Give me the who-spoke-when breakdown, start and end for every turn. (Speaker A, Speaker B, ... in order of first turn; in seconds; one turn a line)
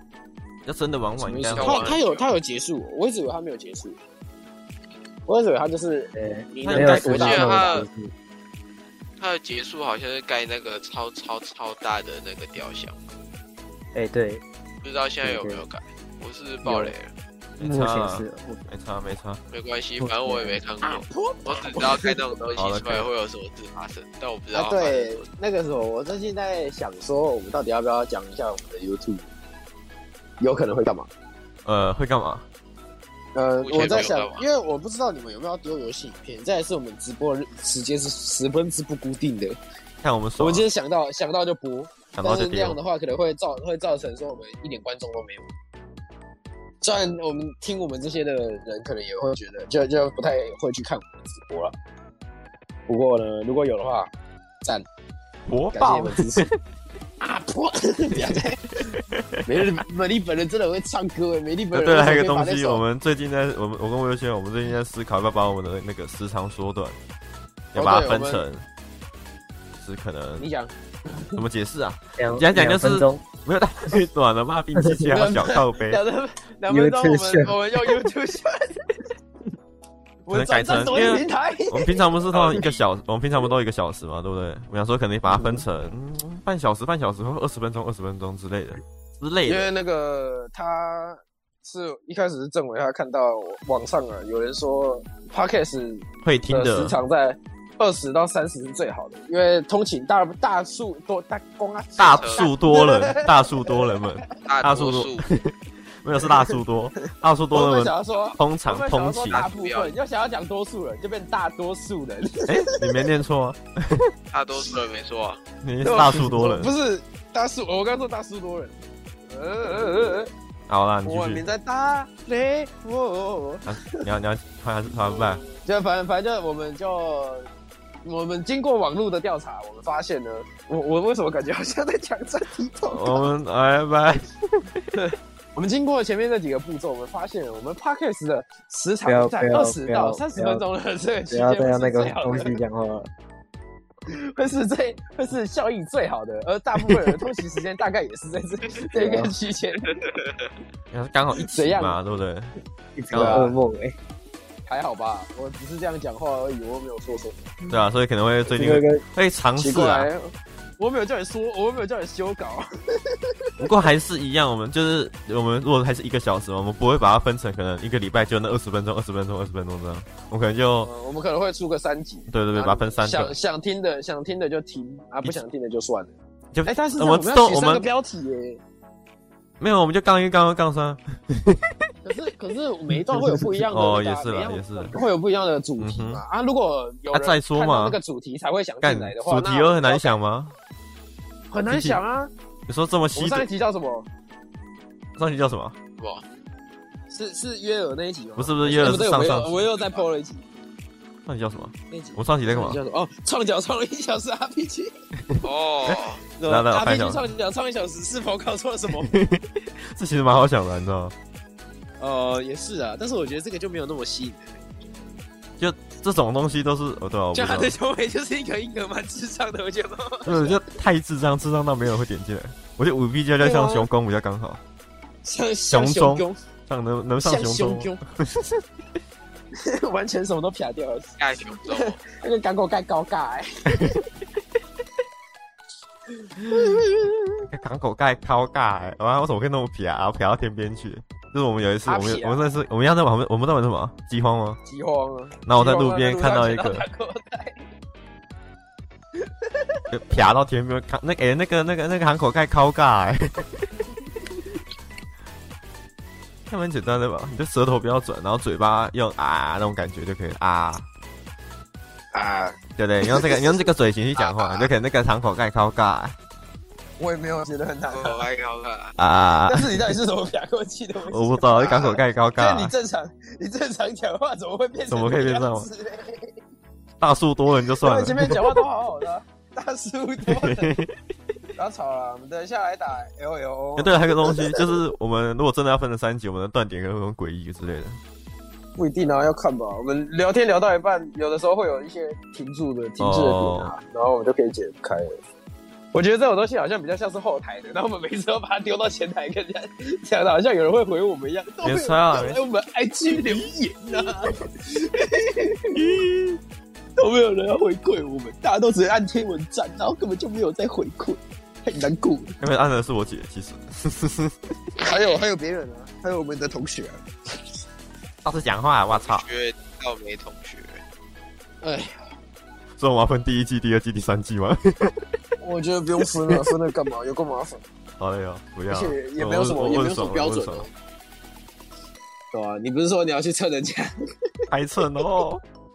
Speaker A: 0.7-1.9
Speaker B: 1.2-4.0
Speaker C: 1.5-2.3
Speaker B: 5.3-7.8
Speaker D: 6.1-8.1
Speaker A: 6.6-7.5
Speaker C: 7.0-7.9
Speaker C: 9.2-13.0
Speaker D: 13.9-14.4
Speaker C: 14.8-17.1
Speaker D: 15.2-15.6
Speaker D: 16.6-16.9
Speaker A: 17.6-19.4
Speaker D: 17.6-18.7
Speaker C: 19.5-25.2
Speaker D: 20.0-20.6
Speaker B: 20.8-22.5
Speaker A: 22.6-23.1
Speaker B: 24.5-29.3
Speaker B: 30.4-31.1
Speaker A: 31.7-32.5
Speaker B: 33.4-39.6
Speaker C: 33.6-34.5
Speaker A: 40.0-40.7
Speaker B: 40.4-45.5
Speaker A: 42.1-42.8
Speaker B: 46.8-51.7
Speaker B: 52.9-54.1
Speaker A: 55.5-56.5
Speaker B: 55.7-56.5
Speaker B: 57.2-62.8
Speaker A: 58.1-59.4
Speaker A: 61.7-67.0
Speaker B: 67.7-68.4
Speaker A: 67.7-68.7
Speaker A: 69.8-70.5
Speaker B: 70.4-71.4
Speaker A: 71.4-76.0
Speaker D: 72.2-73.2
Speaker B: 75.1-78.9
Speaker D: 76.7-78.0
Speaker B: 80.2-82.7
Speaker A: 80.3-89.7
Speaker C: 82.5-82.8
Speaker B: 89.5-104.1
Speaker A: 96.2-97.0
Speaker A: 102.0-109.4
Speaker C: 102.0-102.5
Speaker C: 104.4-105.3
Speaker B: 107.5-112.9
Speaker C: 109.3-109.9
Speaker A: 112.5-114.1
Speaker C: 114.3-115.4
Speaker A: 115.6-116.7
Speaker B: 115.8-118.8
Speaker B: 119.3-120.3
Speaker A: 120.7-121.4
Speaker B: 121.0-124.0
Speaker A: 123.7-125.4
Speaker B: 125.1-127.5
Speaker B: 128.0-133.3
Speaker A: 132.9-134.8
Speaker B: 134.9-142.6
Speaker D: 139.1-140.6
Speaker D: 141.3-143.1
Speaker B: 144.1-150.0
Speaker D: 148.9-149.3
Speaker A: 150.9-152.5
Speaker B: 151.4-152.0
Speaker D: 153.0-154.0
Speaker B: 153.1-153.6
Speaker A: 153.1-153.5
Speaker B: 154.7-157.6
Speaker A: 157.7-160.1
Speaker D: 158.6-159.0
Speaker B: 159.6-163.6
Speaker A: 163.6-170.9
Speaker B: 170.8-176.1
Speaker A: 172.3-173.3
Speaker A: 176.5-177.8
Speaker B: 176.7-178.6
Speaker A: 179.6-181.8
Speaker B: 182.0-190.2
Speaker A: 183.4-185.0
Speaker A: 185.8-186.2
Speaker A: 187.1-188.0
Speaker A: 188.8-190.6
Speaker B: 191.5-192.3
Speaker A: 191.7-192.0
Speaker A: 192.7-193.5
Speaker B: 193.2-194.1
Speaker A: 195.2-195.8
Speaker B: 197.1-200.5
Speaker A: 198.4-199.7
Speaker A: 201.3-202.8
Speaker B: 201.9-204.9
Speaker A: 205.3-207.2
Speaker C: 205.4-206.2
Speaker B: 206.4-209.1
Speaker A: 209.0-211.1
Speaker B: 212.0-214.7
Speaker A: 215.6-217.8
Speaker B: 217.3-220.6
Speaker A: 220.3-224.6
Speaker B: 223.4-223.9
Speaker B: 225.2-226.4
Speaker A: 225.7-228.6
Speaker B: 227.2-228.0
Speaker B: 229.6-234.0
Speaker C: 231.2-232.0
Speaker A: 236.5-236.8
Speaker B: 236.5-236.9
Speaker A: 237.5-244.6
Speaker B: 241.9-242.5
Speaker B: 244.7-247.6
Speaker A: 245.5-246.8
Speaker B: 249.2-249.8
Speaker A: 249.9-253.7
Speaker A: 256.5-260.9
Speaker B: 262.1-263.6
Speaker A: 262.8-266.2
Speaker B: 264.2-264.6
Speaker B: 267.0-268.2
Speaker C: 267.9-268.9
Speaker A: 269.0-269.8
Speaker B: 269.5-276.3
Speaker A: 271.1-272.7
Speaker A: 274.9-275.7
Speaker A: 277.0-278.6
Speaker B: 277.8-280.8
Speaker A: 280.3-280.9
Speaker B: 281.6-284.6
Speaker A: 283.8-288.0
Speaker B: 288.8-295.2
Speaker A: 293.0-293.7
Speaker B: 295.9-305.9
Speaker A: 301.6-302.4
Speaker A: 305.8-306.4
Speaker B: 307.0-312.4
Speaker A: 312.4-314.4
Speaker B: 314.8-317.0
Speaker A: 318.2-319.2
Speaker C: 318.9-320.8
Speaker B: 321.6-322.0
Speaker A: 322.8-325.1
Speaker B: 325.4-327.6
Speaker A: 328.0-330.7
Speaker B: 328.7-330.7
Speaker B: 332.3-333.9
Speaker A: 334.5-335.4